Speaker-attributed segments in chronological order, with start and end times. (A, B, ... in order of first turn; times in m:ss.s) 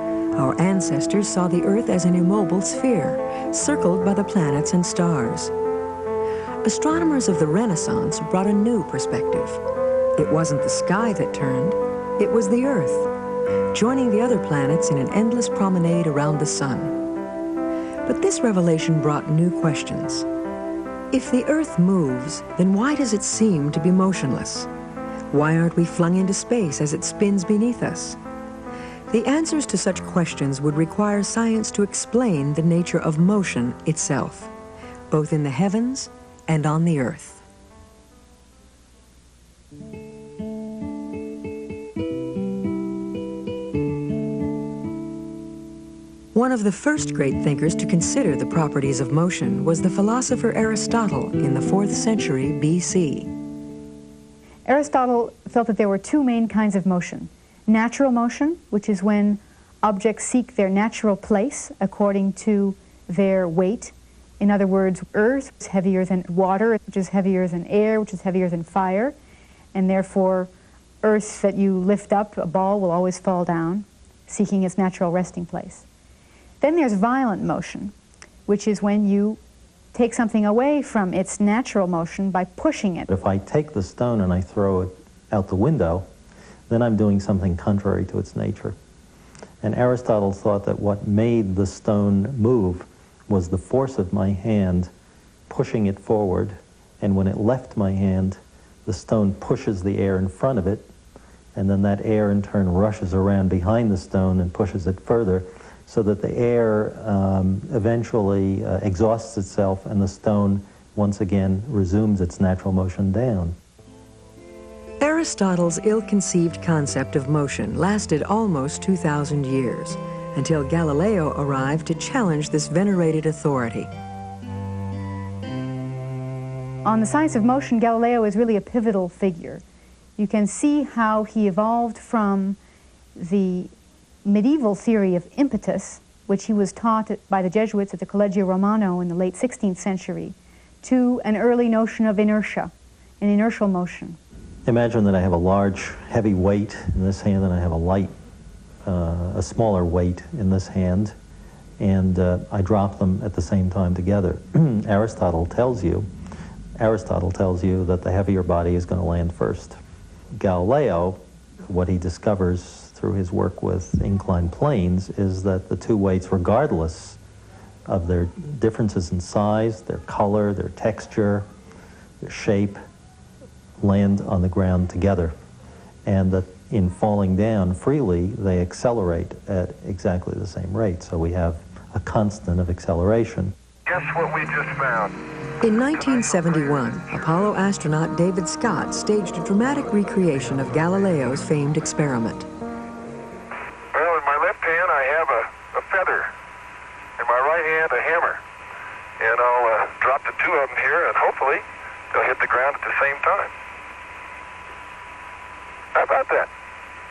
0:00.3-0:05.5 A
0:06.6-0:09.6 A
0:10.2-0:13.1 A
0:13.7-0:17.0 A
0:18.0-0:20.3 A
0:21.1-0:24.7 A
0:25.3-0:28.2 A
0:29.1-0:34.5 A
0:35.1-0:37.4 A
0:46.3-0:53.3 A
0:54.6-1:09.1 B
1:09.7-1:10.5 B
1:11.0-1:15.8 B
1:16.6-1:17.9 B
1:18.4-1:19.4 B
1:19.9-1:23.1 B
1:23.1-1:26.1 C
1:26.7-1:28.8 C
1:29.6-1:34.9 C
1:35.5-1:40.9 C
1:41.5-1:53.6 C
1:55.0-2:03.9 A
2:06.8-2:09.6 B
2:10.2-2:12.6 B
2:13.2-2:13.7 B
2:14.2-2:24.2 B
2:24.6-2:28.1 C
2:28.8-2:31.2 C
2:31.8-2:36.1 C
2:36.8-2:39.8 C
2:40.4-2:47.2 C
2:47.9-2:51.5 C
2:52.2-2:52.8 C
2:53.8-2:55.3 C
2:56.0-3:03.5 C
3:03.9-3:05.2 D
3:05.6-3:12.5 A
3:13.9-3:16.3 D
3:17.2-3:18.4 D
3:19.2-3:23.5 D
3:25.9-3:26.5 D